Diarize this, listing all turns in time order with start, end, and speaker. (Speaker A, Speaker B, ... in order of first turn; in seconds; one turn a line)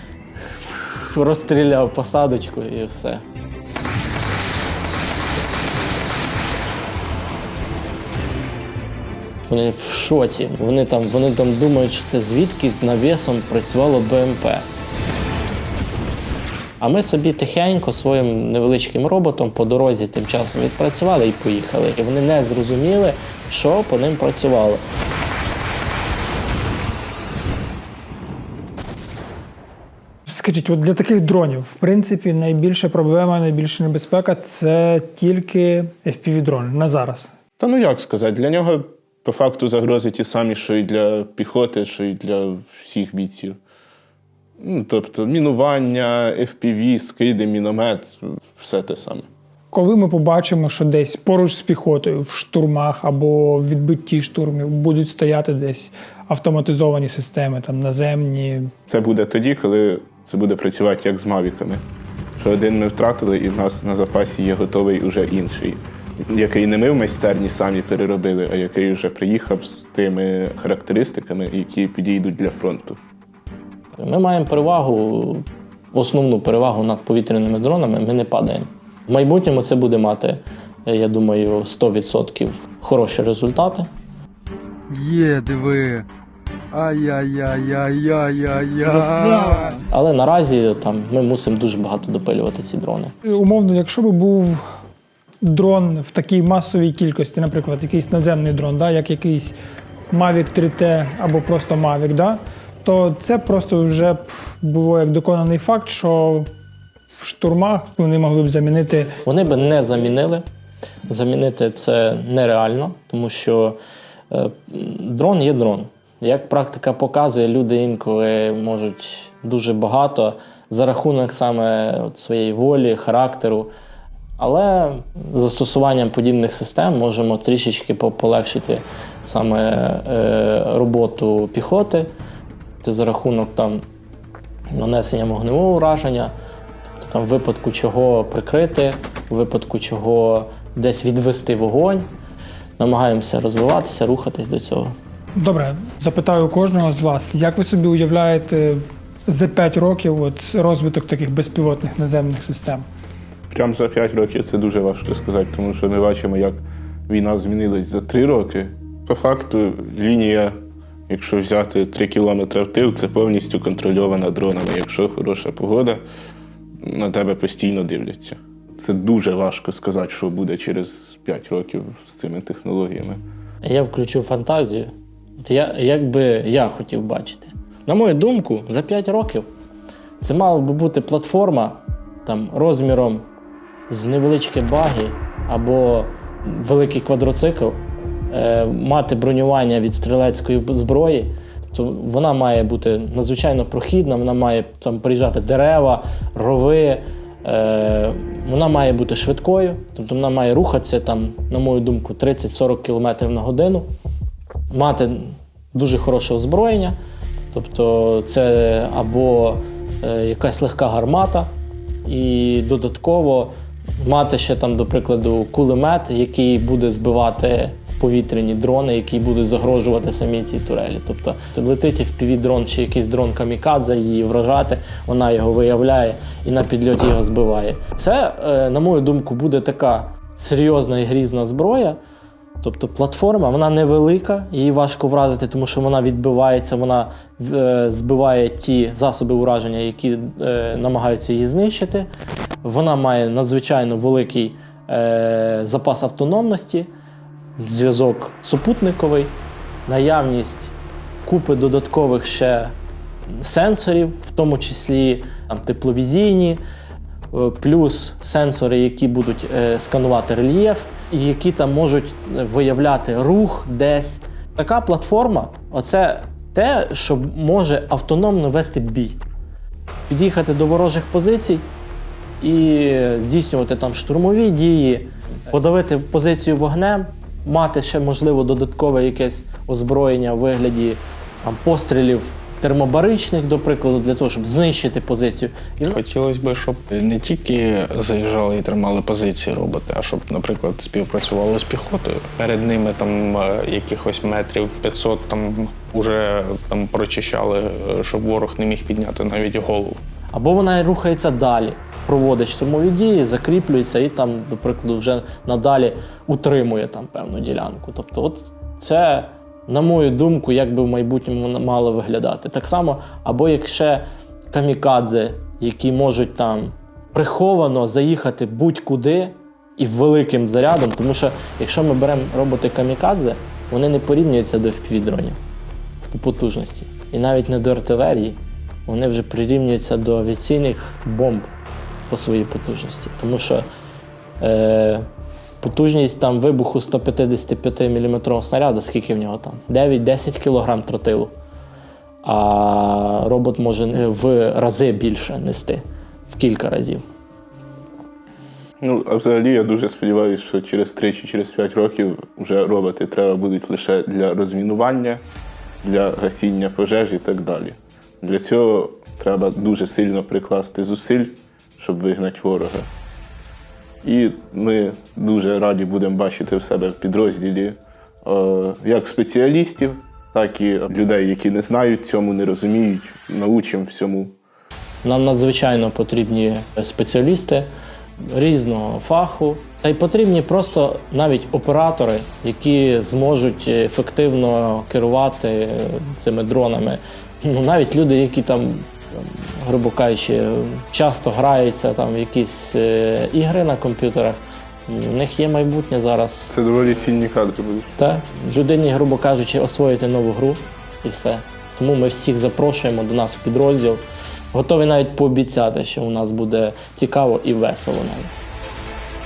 Speaker A: 0.4-3.2
Speaker A: 9.5-14.7
Speaker A: 16.8-24.8
Speaker B: 30.3-37.3
Speaker C: 37.6-43.6
Speaker C: 44.6-49.3
Speaker B: 49.7-58.7
Speaker C: 58.9-61.8
Speaker C: 62.4-73.0
Speaker A: 74.0-83.9
Speaker D: 84.9-86.1
Speaker D: 86.7-89.8
Speaker A: 89.9-93.1
Speaker B: 93.2-94.6
Speaker B: 95.4-99.6
Speaker B: 100.1-106.5
Speaker B: 107.2-109.1
Speaker A: 109.2-110.4
Speaker A: 111.1-113.8
Speaker A: 114.3-123.7
Speaker A: 124.4-132.1
Speaker A: 132.8-133.8
Speaker A: 134.7-136.3
Speaker A: 137.0-142.1
Speaker A: 142.8-144.9
Speaker B: 145.4-152.9
Speaker C: 153.5-160.5
Speaker C: 161.1-166.0
Speaker C: 166.8-173.2
Speaker A: 173.6-179.5
Speaker A: 180.2-183.2
Speaker A: 183.9-203.9
Speaker A: 204.7-207.0
Speaker A: 207.5-211.5
Speaker A: 212.0-232.0
Speaker A: 232.6-242.1
Speaker A: 242.6-246.9
Speaker A: 247.6-249.3
Speaker A: 249.9-250.7
Speaker A: 251.2-252.7
Speaker A: 253.3-256.6
Speaker A: 257.3-269.2
Speaker A: 270.1-271.7
Speaker A: 272.4-286.0
Speaker E: 285.9-300.0
Speaker A: 300.3-325.4
Speaker A: 326.1-331.5
Speaker A: 332.1-333.7
Speaker A: 334.4-335.1
Speaker A: 335.6-341.3
Speaker A: 342.2-347.0
Speaker C: 348.8-355.2
Speaker C: 355.8-362.9
Speaker C: 364.0-374.3
Speaker A: 375.0-377.7
Speaker A: 378.3-396.5
Speaker C: 396.5-397.9
Speaker A: 398.0-408.3